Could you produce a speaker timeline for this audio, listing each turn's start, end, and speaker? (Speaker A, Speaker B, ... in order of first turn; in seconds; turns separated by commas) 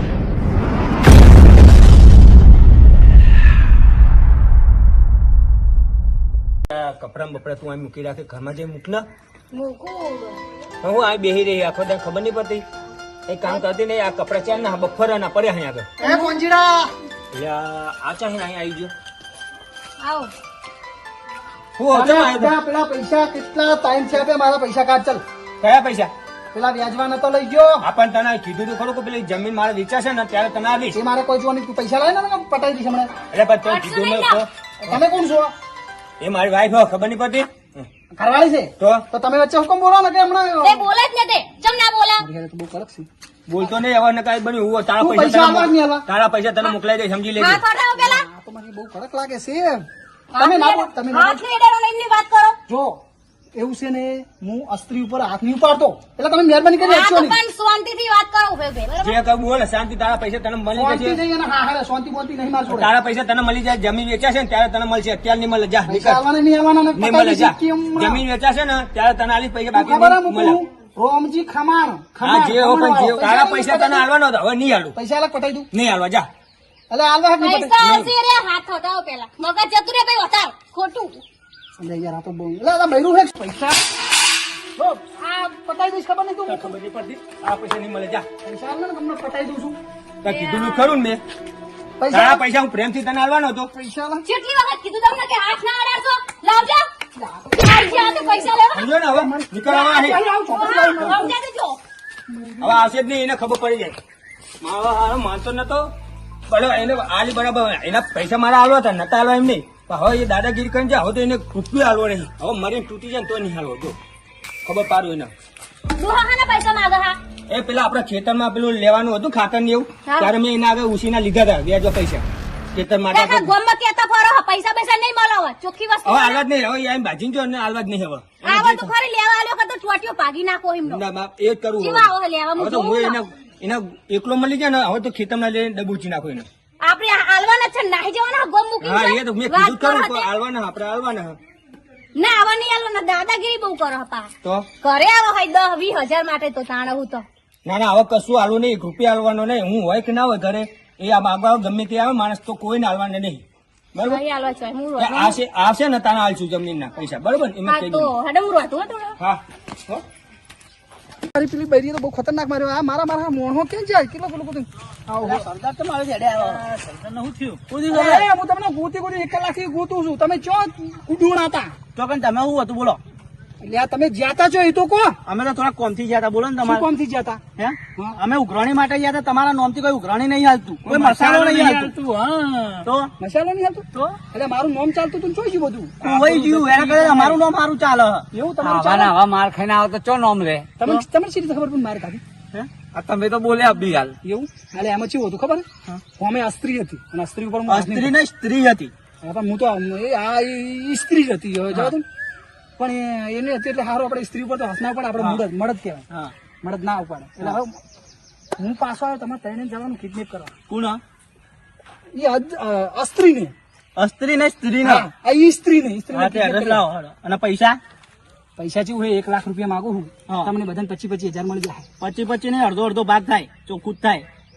Speaker A: 6.7-9.0, Speaker B: 9.6-10.4, Speaker A: 10.8-12.7, Speaker A: 13.3-15.9, Speaker B: 16.0-16.3, Speaker C: 16.0-16.9, Speaker A: 17.3-18.9, Speaker B: 20.0-20.3, Speaker A: 21.8-22.5, Speaker C: 21.9-25.2, Speaker A: 25.6-26.1, Speaker C: 26.5-27.9, Speaker A: 27.8-31.0, Speaker C: 30.9-33.1, Speaker A: 33.3-35.0, Speaker B: 33.7-34.4, Speaker C: 34.8-35.5, Speaker A: 36.2-37.9, Speaker C: 38.1-40.8, Speaker A: 38.8-39.0, Speaker B: 40.6-42.2, Speaker C: 42.2-43.1, Speaker A: 43.5-47.6, Speaker C: 45.0-46.0, Speaker B: 47.4-48.2, Speaker C: 48.0-49.9, Speaker B: 50.3-52.6, Speaker C: 50.4-51.4, Speaker C: 52.7-53.0, Speaker C: 53.5-57.4, Speaker B: 56.8-59.2, Speaker A: 59.0-61.2, Speaker C: 60.7-62.9, Speaker A: 62.7-66.2, Speaker C: 65.9-68.2, Speaker A: 66.9-70.6, Speaker C: 69.7-74.1, Speaker A: 72.2-75.0, Speaker C: 74.9-75.7, Speaker A: 75.7-76.3, Speaker C: 76.9-77.8, Speaker B: 77.4-81.2, Speaker A: 77.8-78.1, Speaker C: 81.8-83.8, Speaker C: 84.8-86.7, Speaker A: 86.5-88.3, Speaker C: 88.4-89.8, Speaker A: 90.2-91.2, Speaker B: 90.2-90.9, Speaker C: 92.0-92.4, Speaker A: 92.1-93.7, Speaker C: 93.7-94.3, Speaker B: 94.2-96.9, Speaker C: 97.2-98.5, Speaker B: 97.5-98.9, Speaker A: 98.7-100.2, Speaker C: 99.1-101.3, Speaker B: 99.9-101.8, Speaker C: 102.3-102.8, Speaker A: 102.6-104.0, Speaker A: 104.6-105.9, Speaker A: 106.5-114.0, Speaker A: 114.6-115.3, Speaker B: 116.0-117.2, Speaker A: 117.5-123.5, Speaker B: 120.1-120.3, Speaker B: 123.1-126.4, Speaker A: 126.0-128.9, Speaker B: 128.4-131.0, Speaker A: 130.8-136.5, Speaker B: 131.8-133.2, Speaker B: 136.8-140.3, Speaker A: 138.8-141.4, Speaker B: 142.2-144.3, Speaker B: 144.8-147.2, Speaker A: 147.6-153.4, Speaker A: 153.9-154.2, Speaker B: 154.0-155.4, Speaker A: 155.0-158.1, Speaker B: 157.6-159.2, Speaker A: 159.2-160.0, Speaker C: 161.3-165.4, Speaker D: 165.1-168.2, Speaker E: 166.4-167.5, Speaker C: 167.9-171.8, Speaker D: 171.9-173.0, Speaker C: 173.6-175.2, Speaker D: 175.2-176.8, Speaker C: 176.6-177.4, Speaker D: 177.6-181.9, Speaker C: 180.8-187.4, Speaker D: 182.8-183.1, Speaker D: 186.0-188.2, Speaker C: 188.3-189.2, Speaker E: 188.6-190.7, Speaker C: 190.8-192.2, Speaker D: 192.5-192.8, Speaker E: 192.8-194.2, Speaker C: 194.2-198.1, Speaker D: 197.7-198.9, Speaker C: 199.2-202.1, Speaker C: 202.8-206.0, Speaker C: 206.6-207.8, Speaker C: 208.6-210.5, Speaker D: 210.7-211.0, Speaker C: 212.1-213.5, Speaker D: 213.9-215.1, Speaker C: 214.8-216.8, Speaker D: 216.1-217.8, Speaker C: 218.6-221.8, Speaker D: 222.0-224.2